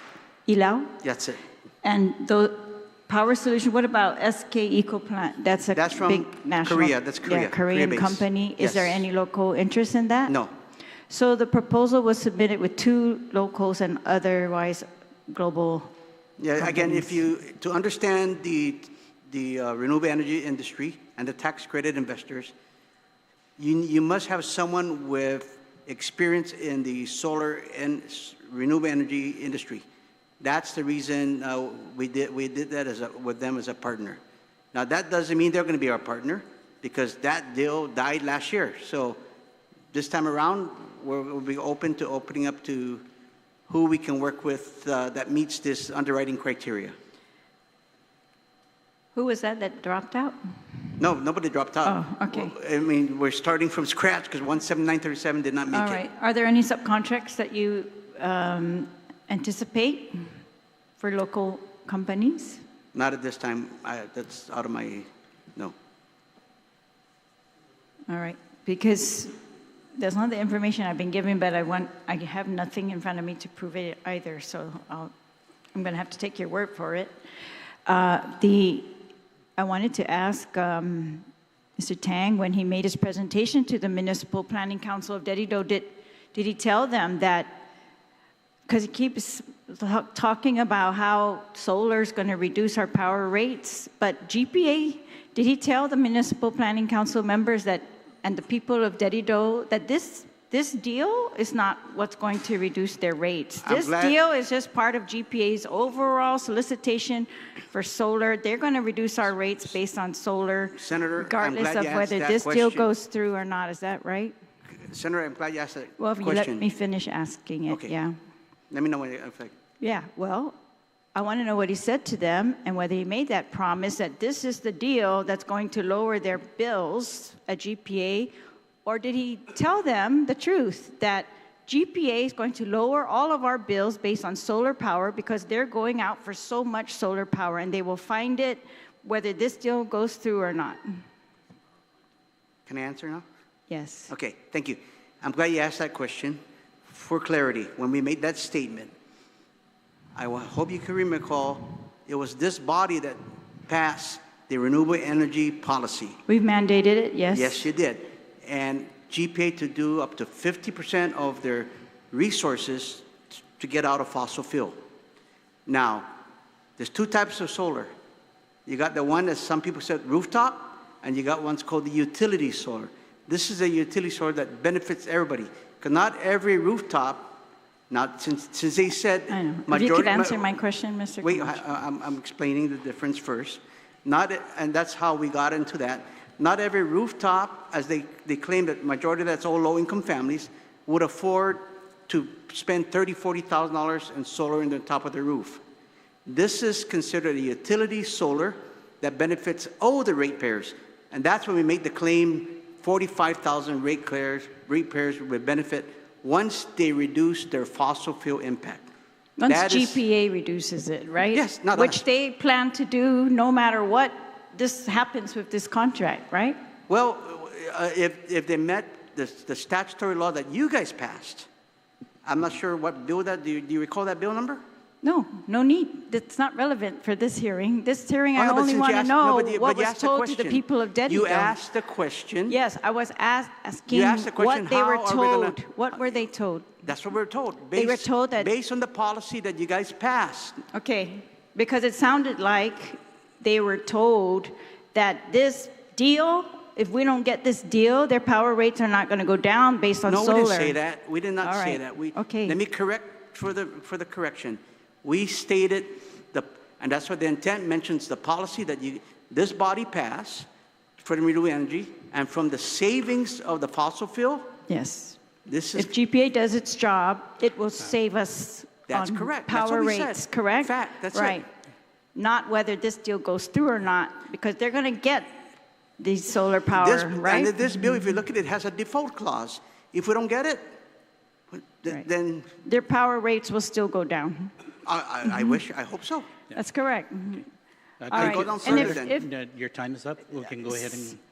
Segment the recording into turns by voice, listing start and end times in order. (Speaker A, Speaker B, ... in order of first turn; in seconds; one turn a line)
Speaker A: 0.5-0.9
Speaker B: 1.0-1.4
Speaker A: 1.8-10.3
Speaker B: 5.7-9.0
Speaker B: 10.3-10.5
Speaker A: 11.1-15.9
Speaker B: 16.4-22.5
Speaker A: 16.6-17.2
Speaker B: 23.6-29.9
Speaker B: 30.4-34.2
Speaker B: 34.7-39.2
Speaker B: 39.9-43.0
Speaker B: 43.7-47.0
Speaker A: 49.1-50.4
Speaker B: 51.0-56.0
Speaker A: 51.9-52.5
Speaker A: 55.7-60.3
Speaker A: 61.0-62.6
Speaker B: 62.9-65.8
Speaker A: 68.1-69.4
Speaker A: 70.0-75.1
Speaker A: 75.7-77.2
Speaker A: 77.9-79.0
Speaker A: 79.6-87.7
Speaker A: 88.7-114.3
Speaker B: 103.6-104.2
Speaker B: 110.7-112.9
Speaker B: 114.8-116.7
Speaker A: 116.0-118.2
Speaker B: 118.7-119.5
Speaker A: 119.8-120.6
Speaker A: 121.2-128.3
Speaker A: 128.8-141.1
Speaker B: 142.7-143.2
Speaker A: 143.7-144.1
Speaker B: 144.1-148.9
Speaker B: 150.2-156.2
Speaker A: 156.3-157.7
Speaker B: 157.3-164.8
Speaker B: 165.7-166.1
Speaker B: 166.8-167.9
Speaker B: 168.7-180.5
Speaker A: 179.3-181.6
Speaker B: 181.2-195.6
Speaker B: 196.3-208.9
Speaker A: 209.4-216.6
Speaker B: 209.5-210.0
Speaker B: 211.3-212.0
Speaker B: 216.9-221.5
Speaker B: 222.2-224.6
Speaker A: 225.0-231.6
Speaker B: 228.4-232.6
Speaker A: 232.5-236.8
Speaker B: 233.9-236.2
Speaker B: 236.8-240.6
Speaker A: 237.8-238.5
Speaker A: 240.7-250.8
Speaker B: 250.1-260.5
Speaker A: 251.4-252.6
Speaker B: 261.0-264.5
Speaker A: 264.7-265.2
Speaker B: 265.5-265.9
Speaker A: 265.8-271.5
Speaker B: 268.9-271.4
Speaker A: 272.1-275.4
Speaker A: 276.0-277.9
Speaker B: 276.8-280.8
Speaker B: 281.5-282.6
Speaker A: 282.6-284.5
Speaker B: 284.9-286.4
Speaker A: 285.3-285.6
Speaker A: 286.5-287.5
Speaker C: 288.0-291.2
Speaker B: 288.1-289.1
Speaker A: 288.1-289.3